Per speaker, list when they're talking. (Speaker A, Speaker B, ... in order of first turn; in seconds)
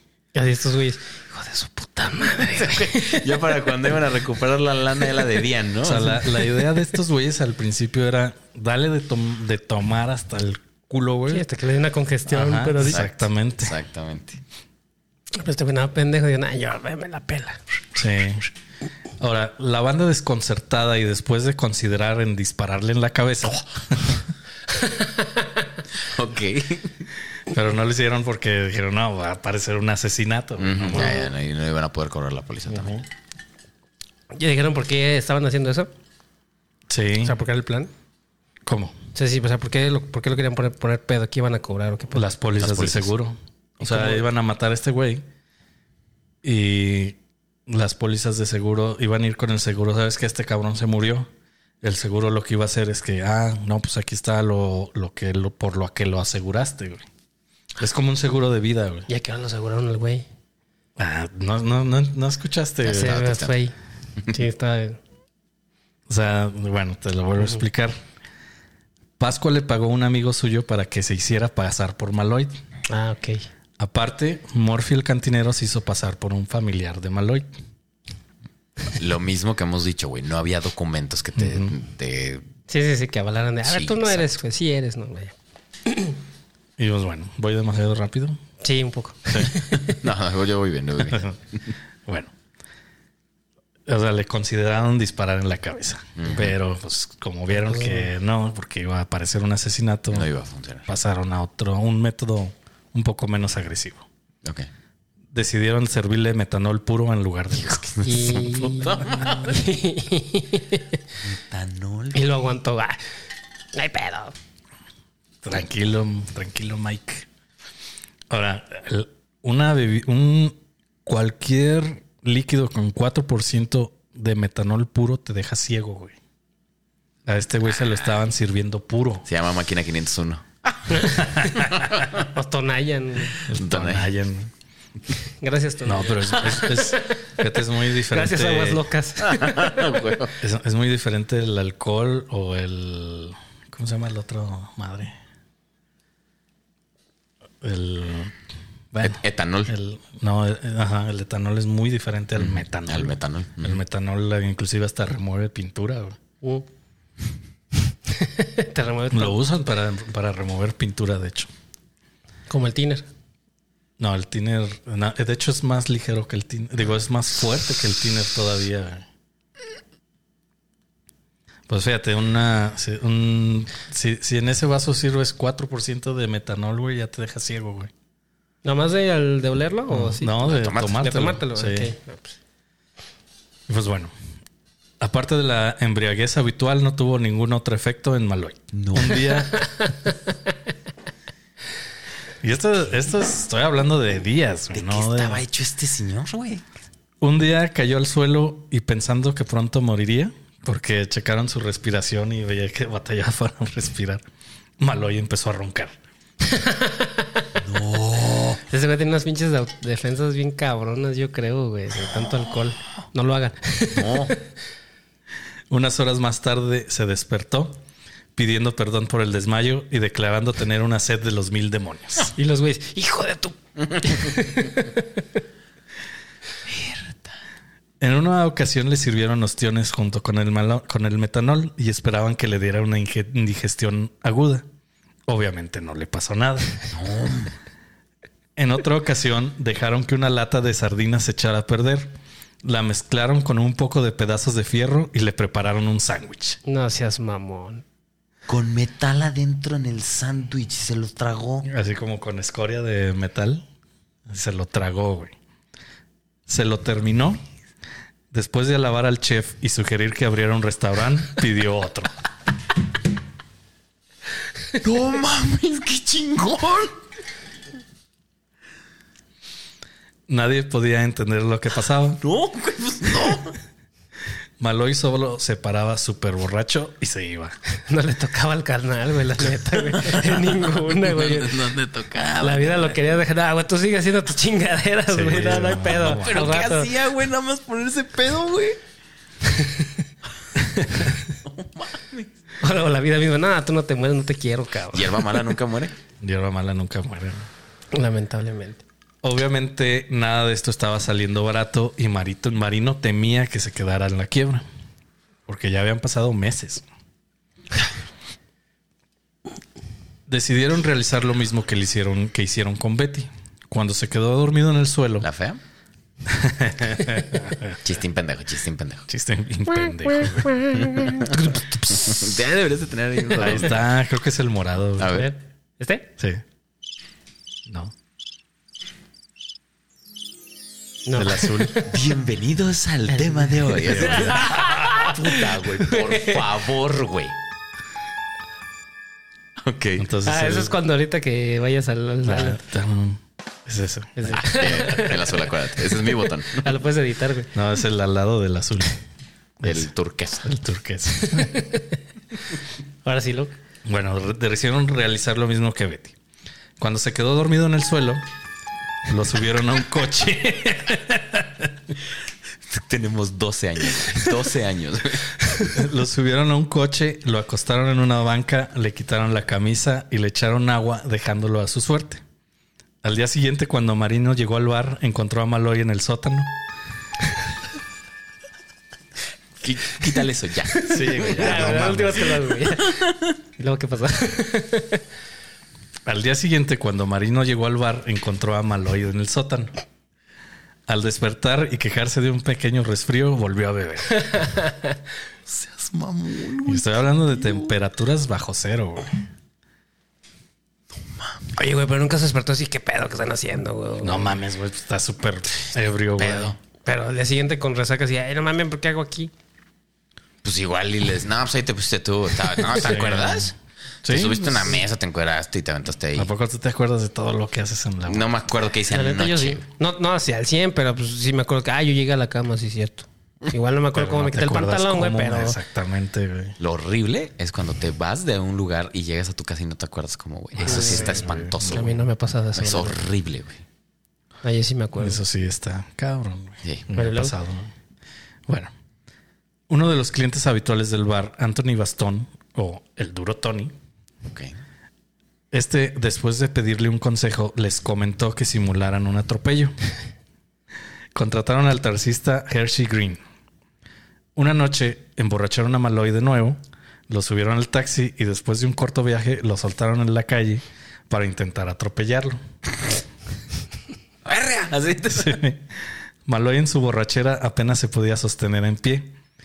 Speaker A: 0.3-3.7, 11.3-13.1, 15.3-17.6, 24.7-25.5, 30.9-31.2, 34.3-35.9, 37.2-37.9, 39.1-42.2, 43.8-44.2, 59.1-60.2, 62.8-63.7, 64.3-65.0, 72.9-73.5, 82.7-85.3, 85.8-86.2, 88.6-90.0, 97.6-98.1, 108.0-111.0, 112.1-113.0, 113.7-114.3, 130.9-133.4, 135.2-140.0, 158.1-159.4, 162.5-163.1, 178.6-182.3, 189.5-189.9, 206.4-207.5, 208.7-214.4, 222.3-225.2, 246.6-247.8, 277.9-281.6, 282.4-286.9, 289.5-289.9, 292.6-295.4, 297.9-298.8, 319.8-322.3, 325.1-326.1, 331.1-332.0, 333.1-336.5, 340.2-342.6, 344.2-347.5, 351.1-352.0, 353.0-353.5, 380.8-385.0, 394.2-394.9, 401.5-404.4, 406.8-409.3, 418.9-425.6, 430.6-433.0, 434.4-435.2, 436.9-437.3
Speaker B: 2.5-6.3, 12.8-14.4, 25.9-27.0, 30.6-33.0, 42.6-43.1, 62.9-63.5, 78.9-82.5, 83.6-84.3, 89.5-91.6, 96.2-96.5, 100.1-100.9, 104.4-104.7, 107.6-109.7, 111.2-112.4, 129.2-132.2, 133.4-134.1, 139.2-140.4, 149.0-149.7, 152.4-153.8, 180.4-181.1, 188.7-189.3, 194.7-196.6, 207.6-208.6, 213.9-214.3, 226.7-227.3, 236.9-237.5, 248.5-251.7, 264.8-266.9, 272.2-273.6, 279.9-283.0, 285.7-288.8, 291.3-292.3, 294.9-295.9, 315.2-315.6, 317.8-319.1, 320.7-323.8, 325.0-325.3, 331.9-337.4, 339.6-340.1, 344.3-346.7, 349.6-350.5, 362.7-365.4, 379.6-382.1, 395.5-397.7, 406.2-406.6, 410.4-413.5, 414.1-416.3, 418.1-419.6, 426.6-432.0, 432.5-433.6, 444.3-444.6, 464.2-465.4
Speaker C: 5.8-11.4, 12.3-13.8, 17.9-18.5, 19.2-24.2, 27.5-31.2, 32.7-33.0, 36.9-37.4, 38.6-39.0, 42.1-45.2, 46.4-51.3, 51.8-57.0, 57.8-59.1, 61.0-63.2, 66.1-68.0, 69.2-72.5, 73.8-77.5, 81.4-81.7, 86.8-88.4, 92.0-92.3, 93.9-100.3, 100.9-104.0, 105.3-107.9, 115.4-117.3, 118.3-126.2, 127.2-129.2, 133.5-134.5, 135.8-138.8, 140.4-145.1, 147.6-148.3, 148.9-156.2, 159.1-161.5, 164.0-169.1, 171.7-177.9, 179.9-181.9, 183.7-184.1, 185.0-189.7, 192.4-195.4, 197.2-204.2, 204.8-206.0, 215.7-217.8, 218.3-222.3, 228.0-234.6, 235.3-236.7, 238.6-242.1, 242.6-246.6, 251.6-253.6, 254.3-255.3, 256.5-257.4, 258.3-262.1, 270.3-272.2, 274.6-277.6, 285.1-286.6, 296.2-297.5, 299.2-304.6, 305.5-306.8, 310.3-315.3, 316.2-317.8, 319.1-320.5, 323.4-325.2, 327.7-327.9, 331.1-331.8, 333.8-334.9, 340.0-340.8, 342.2-344.8, 347.5-349.0, 349.6-349.9, 350.4-351.5, 353.8-356.1, 356.8-358.2, 359.1-361.7, 365.7-372.2, 373.0-376.5, 380.9-382.4, 386.1-389.7, 390.9-394.5, 396.6-399.1, 404.0-406.5, 412.8-413.5, 414.0-414.8, 416.1-418.3, 423.9-426.6, 430.6-432.0, 434.9-437.7, 439.7-443.7, 445.5-449.7, 451.1-453.2, 454.4-462.4, 465.1-465.7, 466.2-469.1